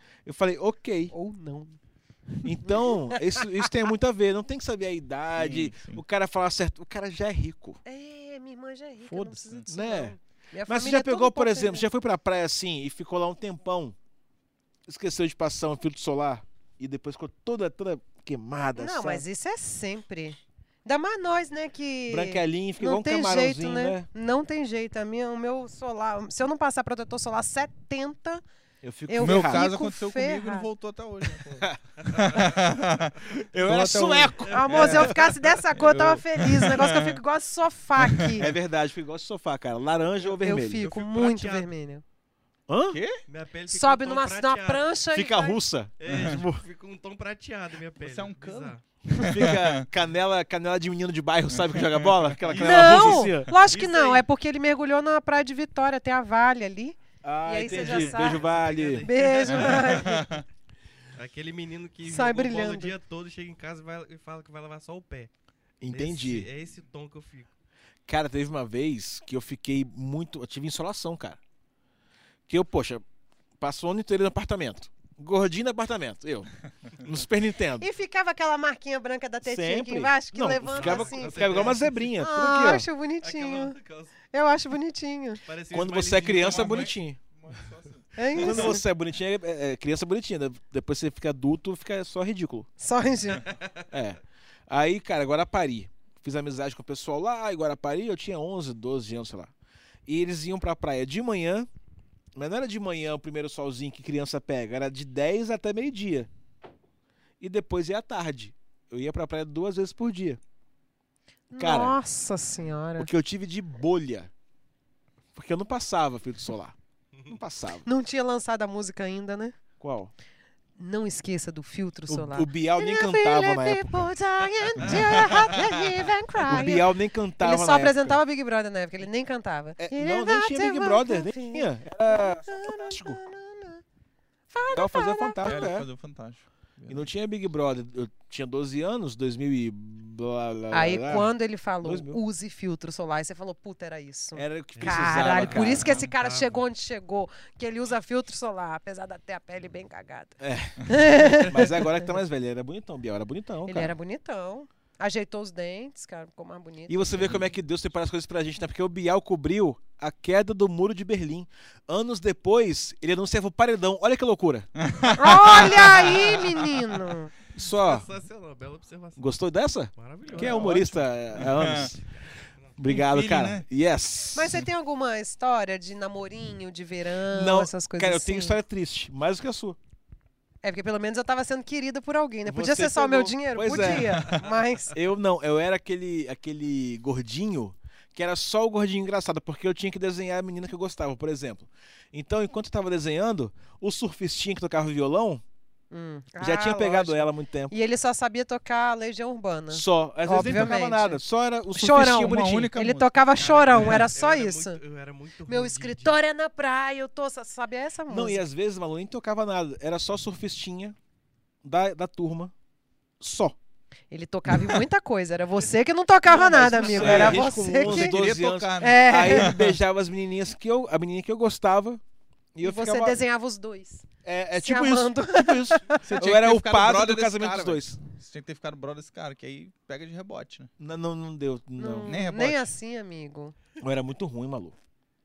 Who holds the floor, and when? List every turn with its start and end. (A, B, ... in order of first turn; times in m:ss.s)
0:00.2-0:01.1 A
0:01.1-0:01.8 B
0:02.4-0:03.6 B
0:02.4-0:07.8 A
0:05.4-0:06.0 C
0:07.8-0:11.9 B
0:09.1-0:09.7 C
0:09.7-0:10.2 A
0:10.7-0:14.0 A
0:14.9-0:19.2 A
0:18.8-0:28.4 B
0:22.1-0:24.1 A
0:28.8-0:29.7 A
0:29.1-0:30.7 B
0:29.2-0:35.2 C
0:31.6-0:32.4 A
0:33.3-0:35.3 A
0:34.5-0:34.8 D
0:34.5-0:38.5 B
0:35.7-0:37.2 C
0:38.3-0:40.8 A
0:40.4-0:42.0 B
0:40.5-0:41.7 D
0:42.7-0:43.0 A
0:42.9-0:43.2 C
0:43.3-0:44.8 D
0:43.7-0:45.6 B
0:45.1-0:46.6 A
0:46.0-0:48.8 D
0:46.1-0:46.4 C
0:48.0-0:49.8 C
0:49.2-0:53.6 A
0:51.6-0:52.5 C
0:52.5-0:54.2 D
0:52.6-0:58.4 B
0:57.2-0:59.1 A
0:57.6-1:00.3 D
0:59.0-1:00.3 B
0:59.5-1:00.4 C
1:01.2-1:05.3 D
1:02.0-1:02.9 B
1:05.8-1:06.5 A
1:05.9-1:07.5 D
1:08.1-1:11.4 A
1:12.5-1:13.0 A
1:13.6-1:17.9 A
1:17.8-1:23.8 B
1:19.4-1:22.9 A
1:20.7-1:22.1 D
1:23.2-1:24.1 D
1:24.3-1:25.4 B
1:25.5-1:26.9 D
1:25.7-1:27.2 A
1:26.4-1:28.7 C
1:28.2-1:28.8 B
1:28.3-1:32.7 A
1:32.8-1:33.5 B
1:33.9-1:39.5 A
1:40.1-1:41.7 A
1:42.4-1:46.3 A
1:47.4-1:50.4 A
1:51.5-1:53.1 B
1:51.6-1:52.0 A
1:53.0-1:54.3 A
1:55.4-1:56.8 A
1:57.3-1:57.9 A
1:57.8-1:59.6 B
1:59.8-2:00.1 A
2:00.8-2:06.9 B
2:02.1-2:04.1 A
2:04.8-2:05.2 C
2:06.5-2:08.2 A
2:07.4-2:13.8 B
2:09.8-2:13.2 A
2:14.5-2:15.6 B
2:14.7-2:15.9 A
2:15.4-2:17.0 C
2:16.9-2:21.3 A
2:20.7-2:32.0 B
2:21.8-2:22.2 A
2:24.4-2:26.0 A
2:24.8-2:26.5 D
2:30.4-2:33.9 A
2:33.7-2:37.4 B
2:36.9-2:44.7 A
2:44.8-2:46.8 C
2:45.2-2:47.3 B
2:45.6-2:46.0 A
2:47.6-2:48.1 A
2:47.6-2:49.2 D
2:49.2-2:52.0 A
2:50.0-2:50.8 D
2:50.3-2:51.9 C
2:52.8-2:54.6 A
2:52.9-2:53.6 C
2:54.3-2:58.6 B
2:57.3-2:59.8 A
3:00.6-3:04.9 B
3:02.4-3:15.4 A
3:03.8-3:04.1 C
3:15.9-3:21.2 B
3:16.4-3:17.7 A
3:19.7-3:22.7 A
3:21.8-3:24.8 B
3:22.0-3:23.1 C
3:23.4-3:26.1 D
3:23.8-3:24.0 C
3:25.5-3:28.4 B
3:28.1-3:31.0 A
3:31.6-3:32.5 A
3:33.2-3:33.6 A
3:34.1-3:38.2 B
3:36.3-3:42.0 A
3:36.8-3:39.7 C
3:38.8-3:39.6 B
3:42.6-3:43.2 A
3:42.6-3:46.0 B
3:44.2-3:48.0 A
3:46.0-3:50.7 C
3:50.8-3:52.1 A
3:51.8-3:53.6 B
3:52.0-3:52.7 C
3:53.8-3:54.8 A